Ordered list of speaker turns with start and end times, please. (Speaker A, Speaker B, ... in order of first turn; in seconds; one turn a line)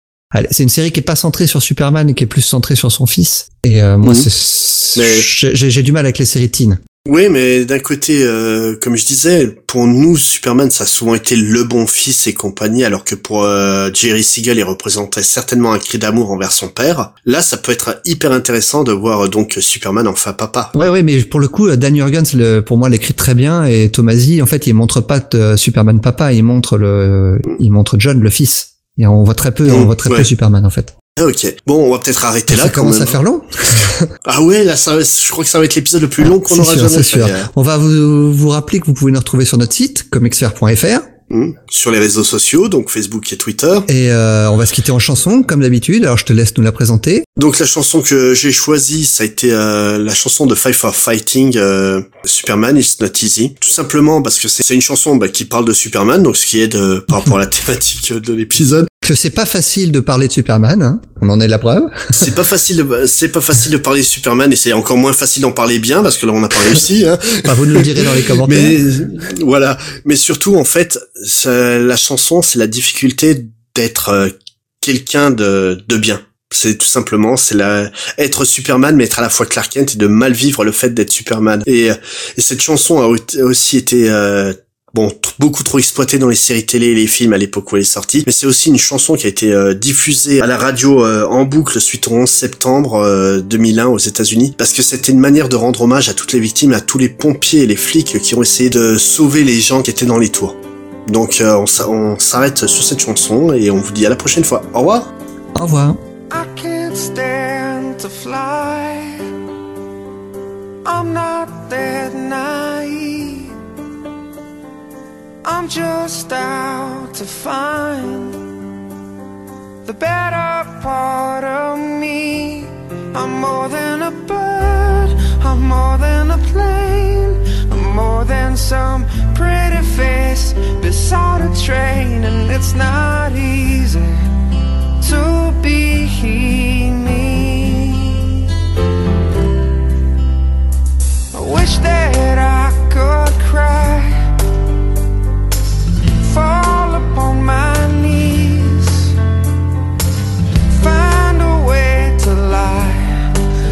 Speaker A: 0.3-6.8
Speaker B: 4.0-4.3
Speaker B: 5.0-5.3
Speaker B: 7.0-20.7
Speaker A: 20.7-30.9
Speaker B: 29.7-30.3
Speaker B: 31.2-33.2
Speaker A: 32.5-34.1
Speaker B: 34.2-37.5
Speaker A: 36.2-41.1
Speaker B: 41.3-43.9
Speaker A: 43.9-47.3
Speaker B: 47.4-58.9
Speaker A: 59.0-62.3
Speaker B: 62.1-105.1
Speaker A: 67.4-68.8
Speaker A: 105.5-106.0
Speaker C: 106.3-109.3
Speaker C: 110.8-113.5
Speaker C: 115.4-118.4
Speaker C: 119.8-134.3
Speaker C: 135.0-138.5
Speaker C: 141.3-144.3
Speaker C: 146.1-149.2
Speaker C: 150.7-153.4